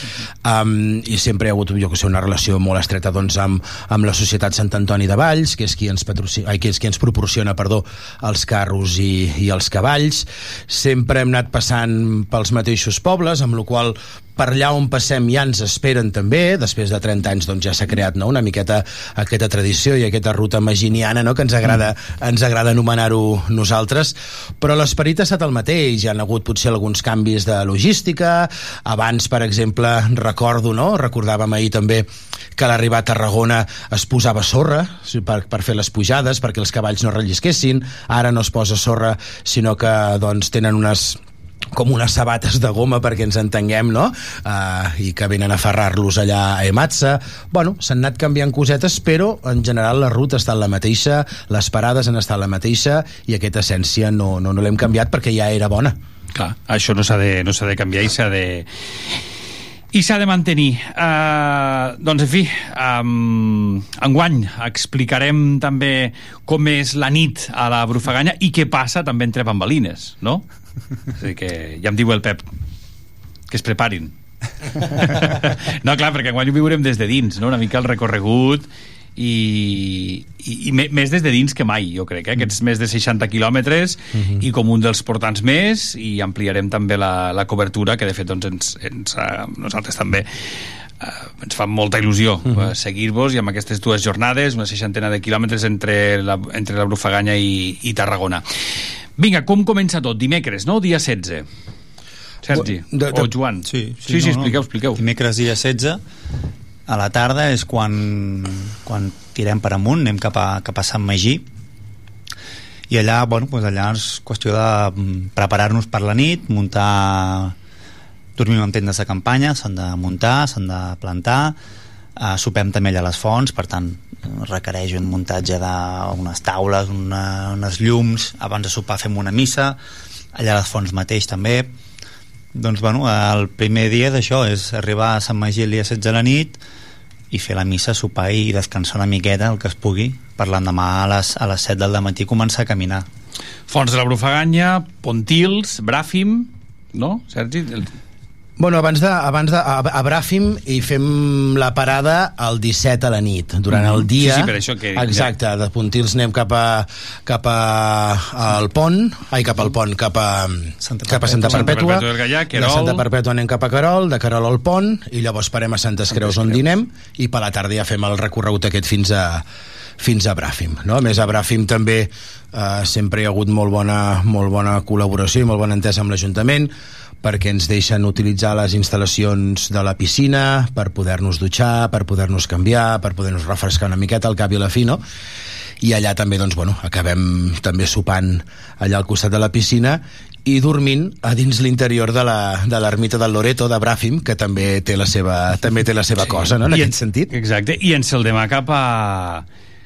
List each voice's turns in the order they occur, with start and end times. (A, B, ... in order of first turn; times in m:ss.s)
0:00.4-0:41.2 A
0:41.7-0:56.0 A
0:56.3-0:58.7 B
0:59.9-1:10.4 B
1:11.2-1:12.4 B
1:13.5-1:14.1 B
1:14.8-1:30.3 B
1:24.2-1:24.4 A
1:31.0-1:38.4 B
1:39.2-1:41.4 B
1:42.4-1:45.0 B
1:42.5-1:43.3 A
1:43.6-1:46.0 C
1:46.9-1:51.4 C
1:52.9-1:57.5 C
1:58.4-2:01.6 C
2:02.2-2:09.8 C
2:10.3-2:11.7 C
2:12.5-2:16.6 C
2:17.3-2:23.0 C
2:23.7-2:27.9 B
2:28.6-2:49.4 A
2:33.7-2:35.3 B
2:40.8-2:41.5 C
2:41.2-2:43.0 B
2:46.1-2:46.6 B
2:50.0-3:05.0 A
3:05.8-3:17.3 A
3:16.2-3:19.4 B